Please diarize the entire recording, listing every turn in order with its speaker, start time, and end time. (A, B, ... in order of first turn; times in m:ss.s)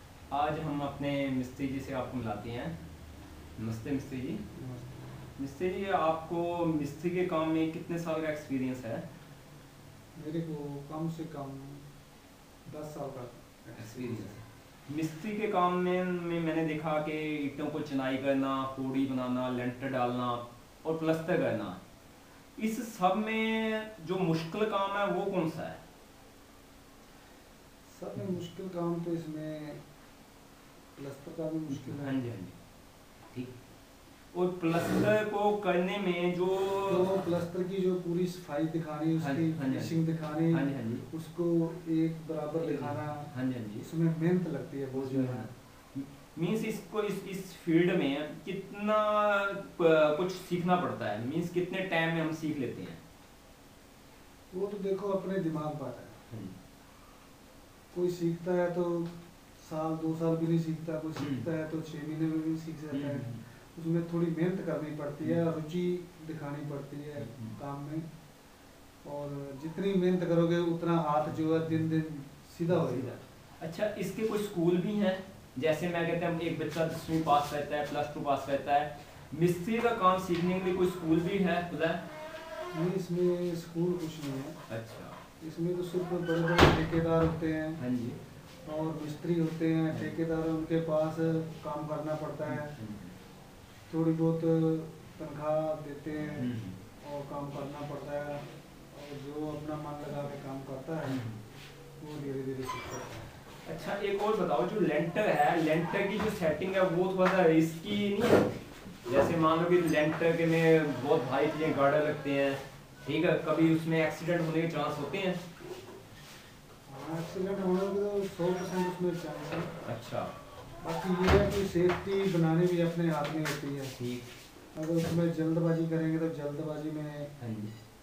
0:00.3-0:02.7 A
0:03.6-0:04.4 A
0:04.6-0:05.0 B
0:05.4-0:09.0 A
0:10.2-0:11.9 B
0:12.6-0:14.4 B
0:13.8-0:21.8 A
0:22.6-0:25.8 A
0:27.9-0:29.8 B
0:31.0-0:32.2 B
0:31.7-0:32.6 A
0:34.3-0:37.1 A
0:36.8-0:45.5 B
0:39.2-0:39.9 A
0:40.5-0:41.0 A
0:42.6-0:43.9 A
0:44.9-0:53.0 A
0:54.5-0:56.2 B
0:57.9-1:08.0 B
1:01.2-1:01.4 A
1:02.9-1:03.4 A
1:07.2-1:07.6 A
1:09.0-1:13.1 B
1:12.7-1:22.0 A
1:22.7-1:24.6 B
1:24.7-1:25.2 A
1:25.4-1:27.8 B
1:27.8-1:28.2 A
1:28.6-1:32.8 B
1:29.9-1:30.1 A
1:32.5-1:33.1 A
1:33.9-1:41.2 B
1:36.4-1:36.8 A
1:41.0-1:41.4 A
1:42.0-1:43.3 B
1:43.6-1:48.5 A
1:49.0-1:55.4 A
1:56.9-1:59.7 B
1:59.8-2:00.3 A
2:00.8-2:04.0 B
2:04.0-2:04.3 A
2:04.7-2:07.3 B
2:07.4-2:07.7 A